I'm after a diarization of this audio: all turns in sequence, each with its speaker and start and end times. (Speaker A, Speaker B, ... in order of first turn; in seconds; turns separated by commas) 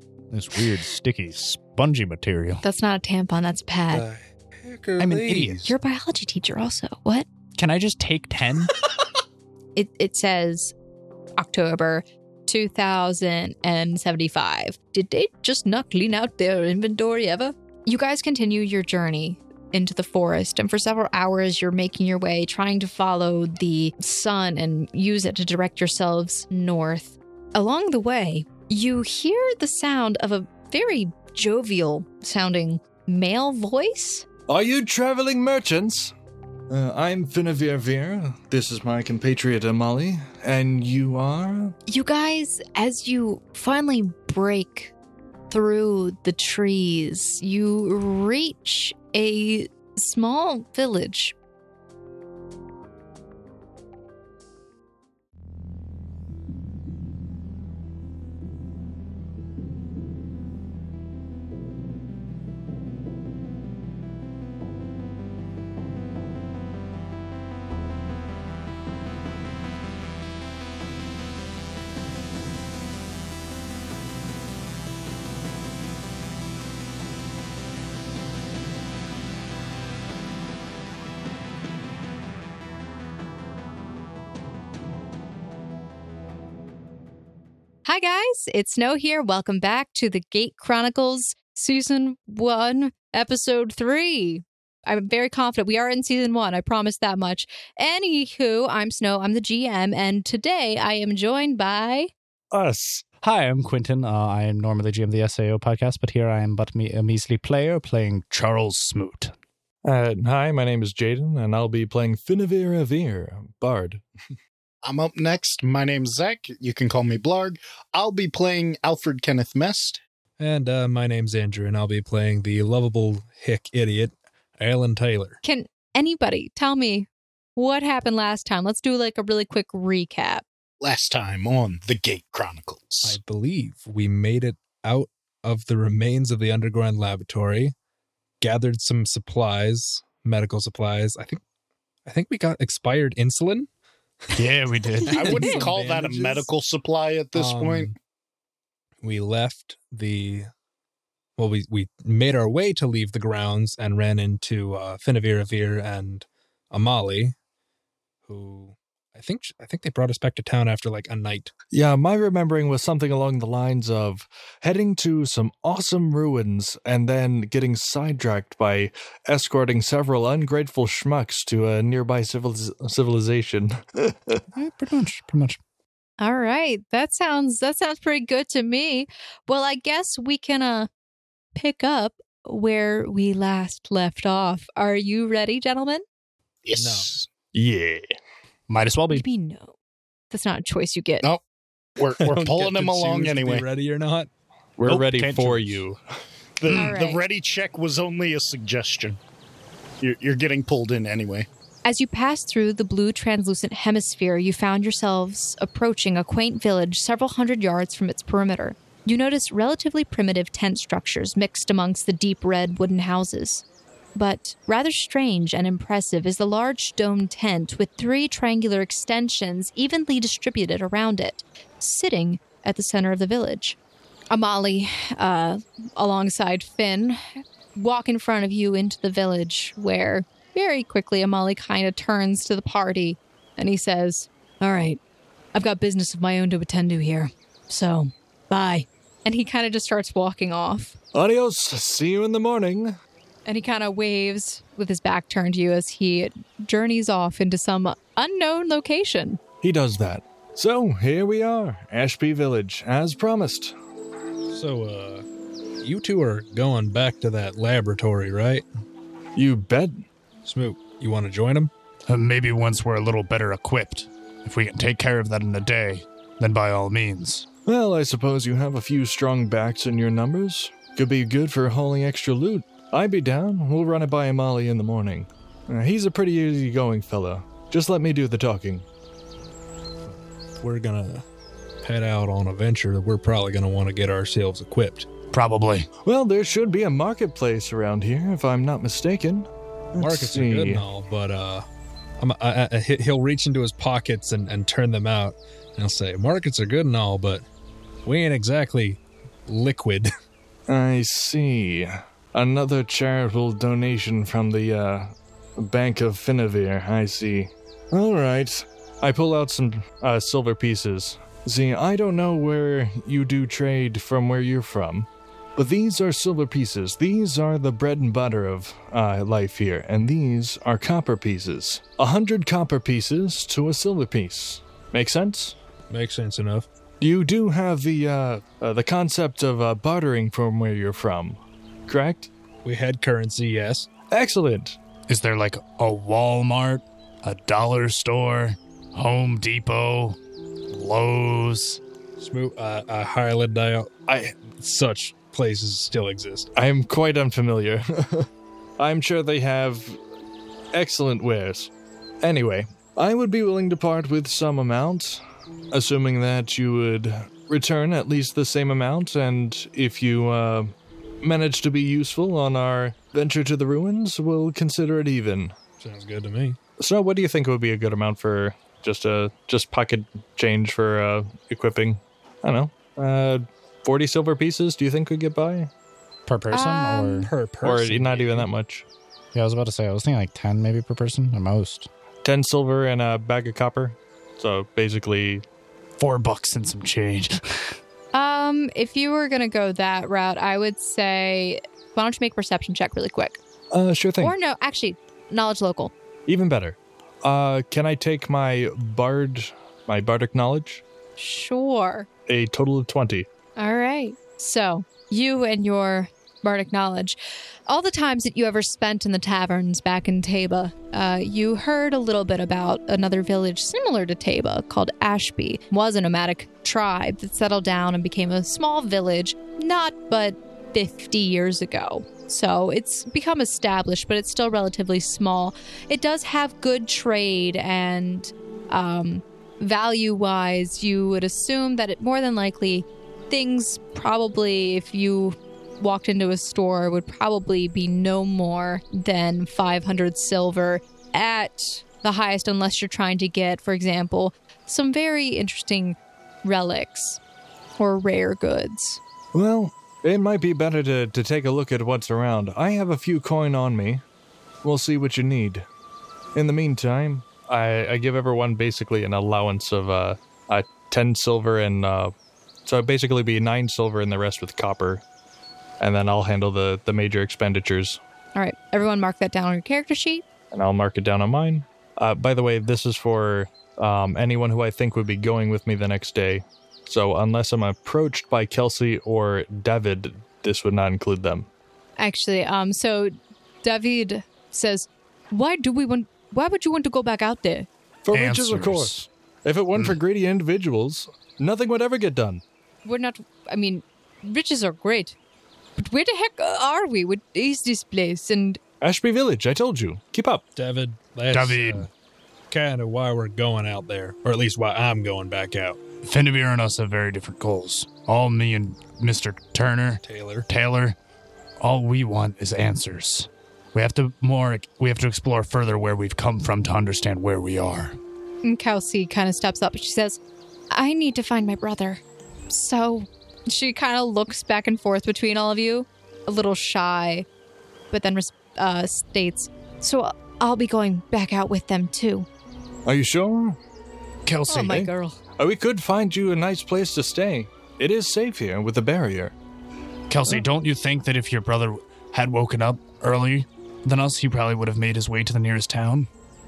Speaker A: 0.3-2.6, Speaker B: 2.6-4.0, Speaker C: 3.9-5.7, Speaker A: 5.0-5.7, Speaker B: 5.6-7.3, Speaker A: 7.6-8.8, Speaker B: 9.7-10.7, Speaker B: 11.4-34.2, Speaker D: 34.5-36.1, Speaker D: 36.7-41.8, Speaker B: 41.9-44.9, Speaker B: 45.5-51.3, Speaker B: 87.8-102.1, Speaker D: 102.5-103.0, Speaker A: 103.2-109.3, Speaker D: 109.8-114.0, Speaker E: 114.8-120.0, Speaker C: 120.4-125.4, Speaker B: 125.4-130.4, Speaker E: 130.8-133.2, Speaker C: 133.0-137.7, Speaker C: 138.4-141.4, Speaker C: 142.1-143.7, Speaker A: 144.3-145.7, Speaker B: 145.0-145.6, Speaker C: 145.1-146.5, Speaker E: 145.1-147.9, Speaker C: 147.3-147.9, Speaker C: 149.0-150.5, Speaker C: 151.4-157.3, Speaker C: 158.2-161.5, Speaker D: 161.7-174.4, Speaker A: 174.5-175.6, Speaker B: 176.2-180.9, Speaker B: 181.5-186.0, Speaker E: 186.6-187.3, Speaker C: 186.7-187.1, Speaker D: 187.5-188.1, Speaker A: 188.7-189.2, Speaker B: 189.1-189.8, Speaker B: 190.3-191.2, Speaker E: 192.0-193.7, Speaker C: 192.2-194.3, Speaker D: 194.8-196.0, Speaker A: 194.8-195.8, Speaker E: 196.6-199.2, Speaker B: 196.7-197.2, Speaker E: 200.0-201.5, Speaker B: 201.8-213.6, Speaker B: 214.2-223.8, Speaker B: 224.3-235.0, Speaker B: 235.5-241.0, Speaker D: 241.1-242.9, Speaker B: 243.4-249.4, Speaker D: 249.6-253.7, Speaker C: 254.5-255.2, Speaker C: 255.8-258.6, Speaker D: 259.4-260.0, Speaker C: 260.4-261.7, Speaker A: 262.1-267.5, Speaker D: 267.6-278.8, Speaker C: 280.1-281.2, Speaker C: 281.8-285.1, Speaker A: 285.3-285.9, Speaker D: 286.0-290.8, Speaker C: 290.0-291.6, Speaker C: 292.2-297.4, Speaker C: 298.0-300.1, Speaker D: 300.7-325.6, Speaker C: 325.9-326.7, Speaker D: 327.0-332.3, Speaker C: 332.6-333.9, Speaker D: 334.1-334.8, Speaker A: 335.1-340.2, Speaker A: 340.7-341.8, Speaker C: 342.2-346.5, Speaker D: 344.1-344.3, Speaker D: 346.6-350.0, Speaker D: 350.7-351.7, Speaker D: 352.2-365.6, Speaker C: 365.8-366.6, Speaker D: 366.8-375.7, Speaker A: 376.3-377.3, Speaker B: 376.5-377.3, Speaker C: 377.2-378.4, Speaker D: 377.6-378.9, Speaker A: 379.3-381.9, Speaker D: 382.2-385.4, Speaker A: 386.0-387.8, Speaker B: 388.1-393.4, Speaker D: 393.7-394.3, Speaker B: 394.2-395.9, Speaker D: 396.3-400.8, Speaker B: 401.2-402.1, Speaker D: 402.3-403.3, Speaker B: 403.6-447.2, Speaker B: 447.8-449.0, Speaker D: 449.3-454.0, Speaker D: 454.6-455.7, Speaker D: 456.3-462.1, Speaker D: 462.6-465.0, Speaker D: 465.8-468.0, Speaker B: 468.3-470.2, Speaker D: 470.5-481.5, Speaker B: 482.0-487.7, Speaker D: 488.0-492.4, Speaker A: 488.1-489.1, Speaker B: 492.8-495.1, Speaker B: 495.8-498.6, Speaker D: 498.8-500.4, Speaker C: 500.6-501.9, Speaker A: 501.3-501.8, Speaker C: 502.5-505.8, Speaker A: 506.0-510.9, Speaker C: 510.0-510.5, Speaker A: 511.6-518.0, Speaker B: 518.4-520.2, Speaker B: 520.7-527.2, Speaker B: 527.9-532.3, Speaker D: 532.8-533.6, Speaker A: 534.2-534.7, Speaker B: 534.5-535.2, Speaker D: 534.5-539.3, Speaker A: 540.1-546.1